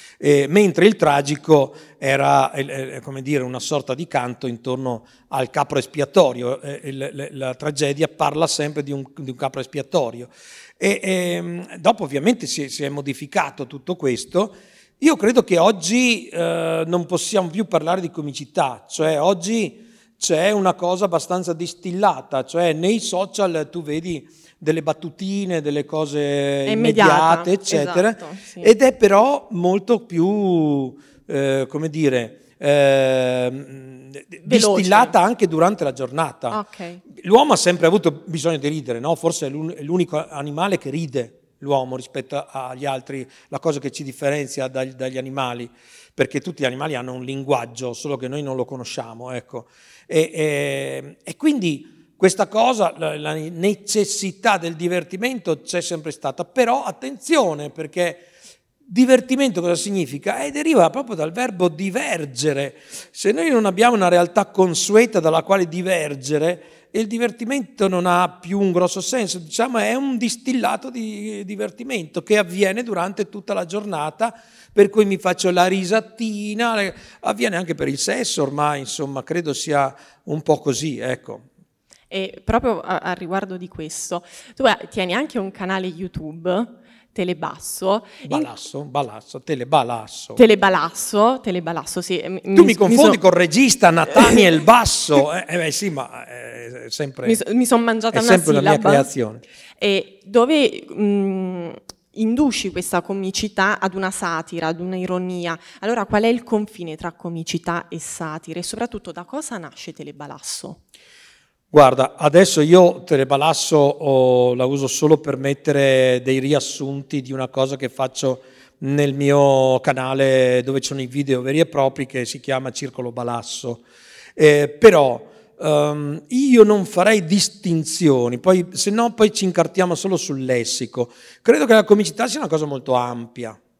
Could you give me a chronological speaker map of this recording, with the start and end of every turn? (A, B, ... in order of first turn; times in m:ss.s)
0:00.2-0:36.6 A
0:26.6-0:28.7 B
0:34.4-0:35.2 B
0:36.5-0:37.0 B
0:37.1-0:58.3 A
0:58.8-1:21.4 A
1:22.1-1:28.5 B
1:28.2-1:30.4 A
1:30.4-1:33.2 B
1:32.5-1:37.4 A
1:34.1-1:34.4 B
1:37.2-1:39.1 B
1:38.1-1:39.4 A
1:39.8-1:50.8 B
1:51.7-2:03.8 A
2:04.4-2:13.6 A